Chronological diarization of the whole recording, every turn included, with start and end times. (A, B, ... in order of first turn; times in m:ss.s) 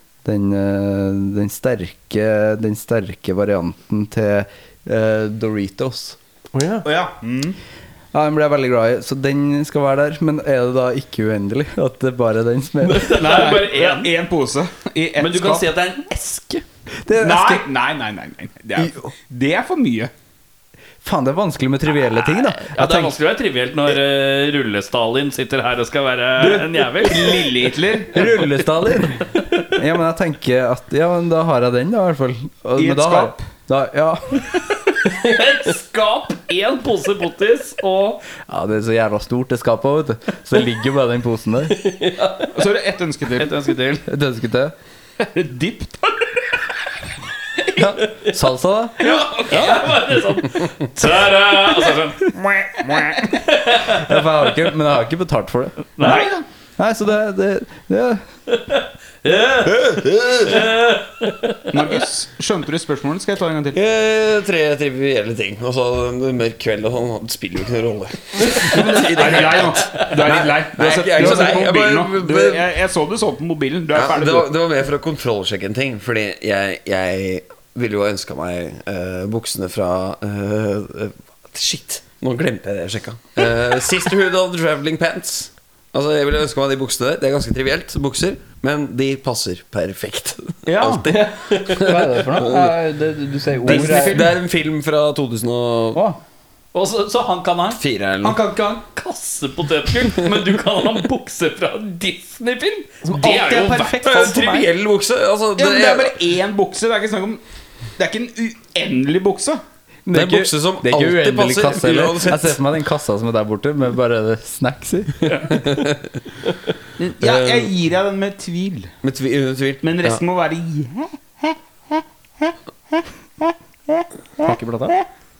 0:00.2-0:06.2 A
0:06.5-0:06.9 B
0:06.8-0:07.6 C
0:08.1-0:13.3 A
0:12.9-0:14.1 D
0:13.1-0:15.7 C
0:15.2-0:16.6 D
0:17.0-0:17.6 A
0:17.2-0:20.1 C
0:21.0-0:23.1 A
0:22.5-0:27.6 D
0:26.4-0:28.4 C
0:28.1-0:34.5 A
0:32.8-0:33.5 C
0:35.0-0:38.2 D
0:38.5-0:41.8 A
0:41.8-0:42.5 B
0:42.5-0:43.6 C
0:43.4-0:44.0 D
0:44.0-0:44.7 A
0:45.2-0:46.1 C
0:47.8-0:49.1 A
0:49.2-0:49.8 C
0:49.5-0:54.1 D
0:53.8-0:56.2 A
0:56.0-0:56.3 D
0:56.0-0:56.4 C
0:56.8-0:58.2 A
0:59.2-0:59.8 D
0:59.6-1:00.7 E
1:00.4-1:01.5 D
1:01.7-1:03.8 C
1:03.7-1:12.6 E
1:08.9-1:14.5 C
1:13.9-1:32.8 E
1:30.6-1:31.1 C
1:31.7-1:34.3 A
1:33.6-1:36.0 E
1:36.7-1:44.6 D
1:37.7-1:38.5 E
1:43.0-1:44.4 B
1:44.0-1:46.2 E
1:45.6-1:47.4 C
1:48.0-1:49.6 C
1:50.1-1:55.4 A
1:50.1-1:52.6 E
1:55.5-1:56.0 E
1:57.0-1:58.9 C
1:57.2-1:57.7 E
1:59.0-2:00.2 E
1:59.8-2:02.0 C
2:04.4-2:05.0 B